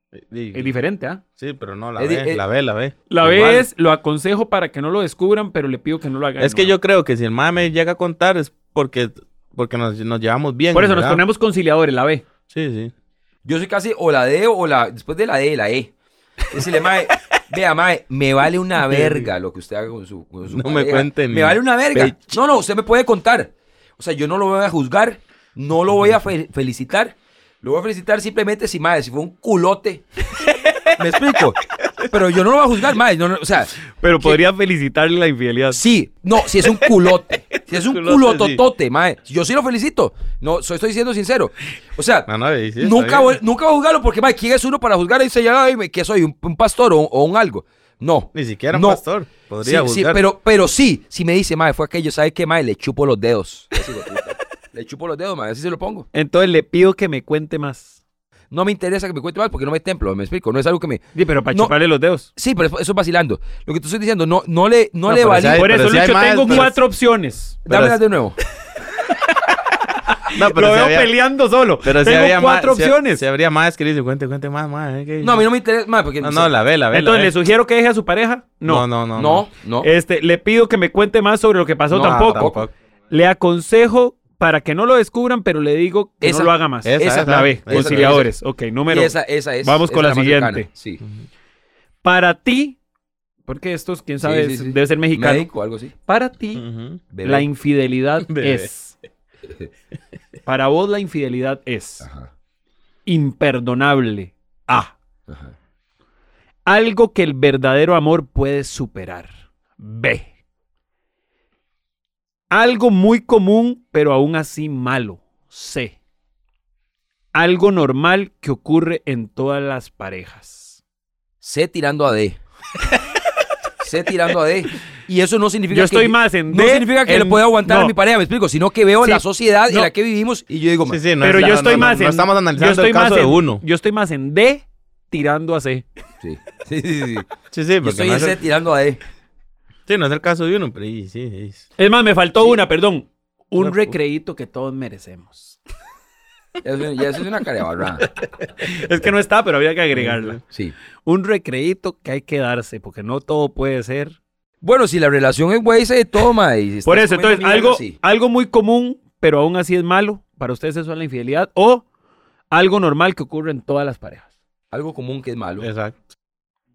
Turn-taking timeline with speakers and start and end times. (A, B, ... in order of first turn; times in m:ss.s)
0:00.2-0:00.8 A
0:00.5-0:01.2 B
0:01.4-0:03.7 A
0:02.0-0:02.4 C
0:03.1-0:06.8 B
0:06.4-0:11.2 A
0:10.7-0:12.2 B
0:12.5-0:12.9 A
0:13.4-0:15.9 C
0:16.5-0:30.1 C
0:18.8-0:19.3 A
0:20.5-0:22.4 A
0:31.0-0:31.6 C
0:32.1-0:34.4 C
0:34.0-0:35.8 B
0:35.7-0:49.0 C
0:37.7-0:38.6 A
0:42.3-0:43.4 A
0:48.3-0:50.2 A
0:49.6-0:56.1 C
0:56.1-0:58.0 B
0:58.5-1:01.7 C
1:01.2-1:02.3 B
1:02.4-1:05.7 C
1:05.1-1:07.6 B
1:05.1-1:06.8 A
1:07.6-1:08.4 C
1:07.7-1:08.0 A
1:10.3-1:13.2 B
1:10.3-1:11.1 A
1:11.8-1:15.4 A
1:15.2-1:16.5 C
1:16.2-1:17.4 A
1:16.9-1:18.9 B
1:18.6-1:19.5 A
1:19.2-1:19.9 C
1:19.8-1:22.6 B
1:21.9-1:22.6 C
1:21.9-1:22.7 A
1:23.1-1:30.7 B
1:26.2-1:28.3 C
1:26.8-1:28.3 A
1:28.9-1:31.0 C
1:32.0-1:32.8 B
1:33.5-1:35.5 B
1:34.2-1:35.9 C
1:36.0-1:36.6 B
1:36.6-1:37.0 A
1:37.1-1:37.5 C
1:37.2-1:39.0 B
1:38.3-1:38.7 A
1:40.5-1:42.0 B
1:42.0-1:42.3 C
1:43.1-1:44.9 B
1:45.3-1:45.5 C
1:46.7-1:50.3 B
1:52.5-1:56.0 B
1:57.3-2:00.8 B
2:01.4-2:02.4 C
2:03.8-2:11.9 C
2:05.7-2:07.9 B
2:09.0-2:09.9 B
2:10.9-2:13.6 A
2:11.2-2:15.9 B
2:16.2-2:17.3 C
2:17.5-2:18.4 A
2:17.8-2:19.0 C
2:19.9-2:21.6 A
2:21.8-2:25.6 B
2:23.6-2:23.9 A
2:26.6-2:28.1 C
2:28.6-2:30.4 B
2:29.9-2:30.4 A
2:31.0-2:34.2 B
2:34.6-2:38.0 C
2:36.8-2:41.8 B
2:42.5-2:44.3 B
2:44.7-2:45.7 C
2:45.6-2:46.1 A